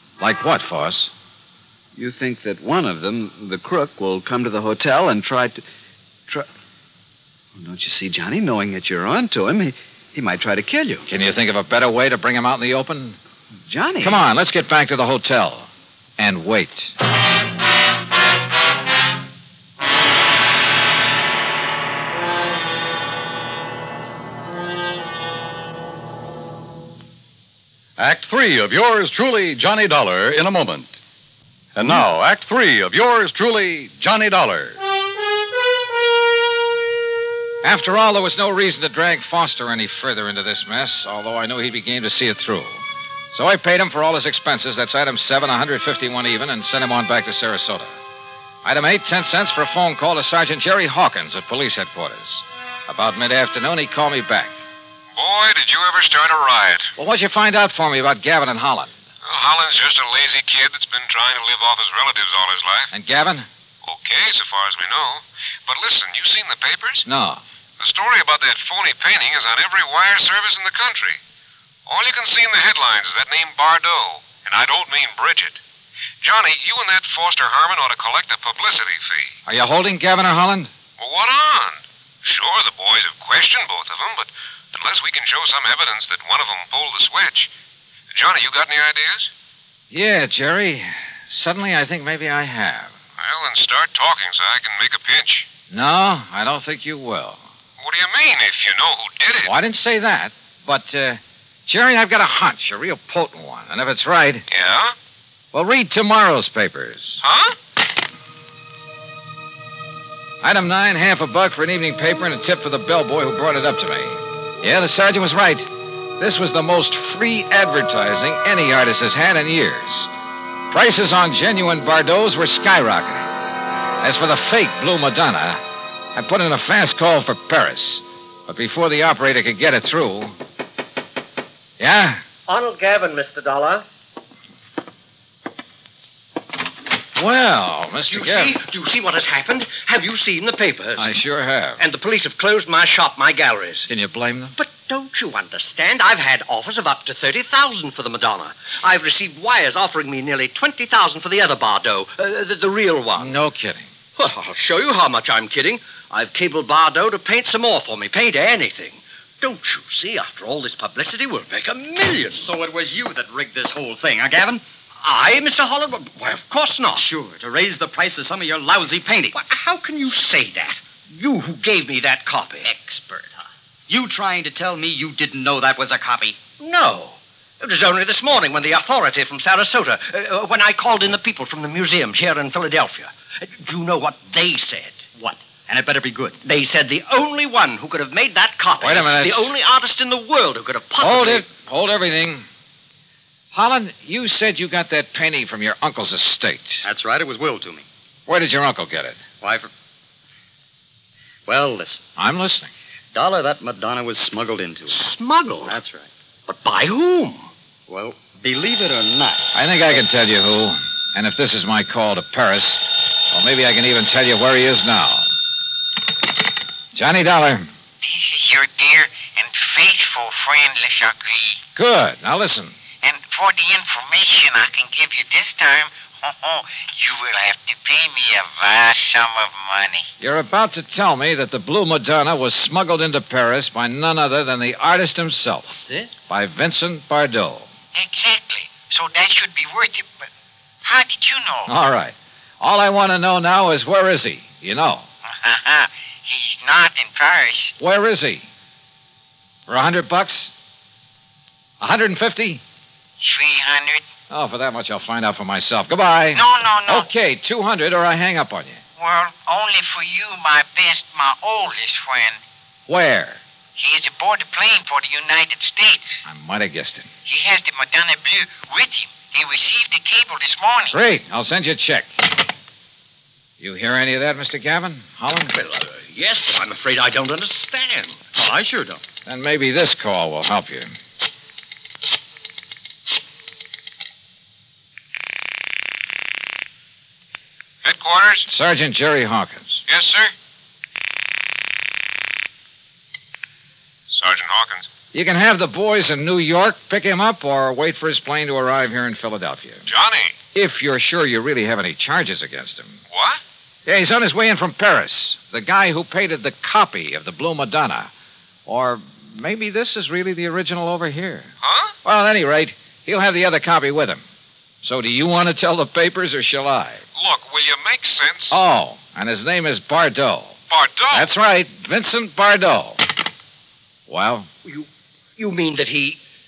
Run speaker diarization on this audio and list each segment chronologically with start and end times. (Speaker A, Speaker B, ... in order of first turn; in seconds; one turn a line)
Speaker A: 0.2-1.1
Speaker B: 2.0-5.6
Speaker B: 7.6-11.1
Speaker A: 11.1-13.2
Speaker B: 13.7-14.2
Speaker A: 14.0-17.0
Speaker C: 28.0-30.9
Speaker C: 31.8-34.8
Speaker A: 37.6-48.0
Speaker A: 48.6-54.5
Speaker D: 55.1-56.9
Speaker A: 57.0-58.9
Speaker D: 59.2-62.9
Speaker A: 62.9-63.5
Speaker D: 63.8-67.0
Speaker A: 67.1-67.4
Speaker D: 67.8-71.2
Speaker D: 71.9-75.6
Speaker D: 76.2-79.3
Speaker A: 79.5-80.7
Speaker D: 81.0-87.5
Speaker D: 88.1-89.3
Speaker A: 89.9-93.0
Speaker D: 93.2-95.5
Speaker A: 95.7-97.4
Speaker D: 97.8-99.5
Speaker A: 99.4-104.5
Speaker D: 104.5-104.9
Speaker A: 105.5-107.2
Speaker D: 107.2-107.5
Speaker A: 110.4-120.1
Speaker A: 120.7-123.3
Speaker A: 124.0-125.6
Speaker A: 126.2-130.4
Speaker A: 131.8-132.2
Speaker E: 132.5-133.8
Speaker A: 137.2-138.6
Speaker E: 138.1-141.0
Speaker A: 141.0-141.8
Speaker E: 141.8-143.9
Speaker A: 143.9-144.6
Speaker E: 144.6-153.4
Speaker A: 153.2-153.9
Speaker E: 154.2-162.5
Speaker F: 162.4-164.6
Speaker E: 165.0-167.0
Speaker F: 166.9-169.4
Speaker E: 169.3-172.7
Speaker F: 172.7-173.3
Speaker F: 173.9-176.4
Speaker E: 176.6-185.0
Speaker F: 185.2-186.4
Speaker E: 186.4-191.4
Speaker A: 188.8-189.5
Speaker A: 191.0-192.5
Speaker A: 193.5-196.8
Speaker F: 196.8-197.9
Speaker A: 198.3-199.2
Speaker F: 199.4-199.7
Speaker F: 201.5-202.0
Speaker A: 202.2-202.7
Speaker F: 203.1-206.1
Speaker E: 204.9-205.7
Speaker E: 206.5-207.5
Speaker F: 207.9-209.4
Speaker A: 209.5-215.3
Speaker A: 216.9-217.7
Speaker G: 218.0-221.6
Speaker A: 221.8-222.8
Speaker G: 223.0-230.1
Speaker A: 230.2-235.8
Speaker A: 236.3-237.7
Speaker G: 237.9-240.1
Speaker G: 240.8-241.7
Speaker A: 241.7-245.1
Speaker G: 245.3-247.8
Speaker A: 247.8-248.5
Speaker A: 249.7-250.5
Speaker A: 251.8-252.6
Speaker G: 253.2-254.0
Speaker A: 254.3-258.8
Speaker G: 256.3-257.1
Speaker G: 259.0-262.4
Speaker A: 262.9-263.4
Speaker G: 263.8-266.2
Speaker A: 266.2-267.1
Speaker G: 267.3-271.0
Speaker A: 270.9-272.1
Speaker A: 273.6-275.6
Speaker E: 275.6-279.0
Speaker A: 279.3-280.9
Speaker D: 287.8-288.5
Speaker A: 288.5-289.8
Speaker D: 289.9-290.3
Speaker D: 294.1-294.9
Speaker A: 295.1-299.9
Speaker D: 299.9-300.4
Speaker A: 300.5-303.0
Speaker D: 303.1-303.4
Speaker A: 303.9-308.1
Speaker A: 308.7-311.5
Speaker D: 311.6-311.9
Speaker A: 312.0-314.2
Speaker A: 314.8-317.0
Speaker D: 317.2-318.6
Speaker A: 318.5-320.6
Speaker D: 320.7-321.3
Speaker A: 321.1-323.0
Speaker A: 324.1-324.5
Speaker E: 324.6-326.2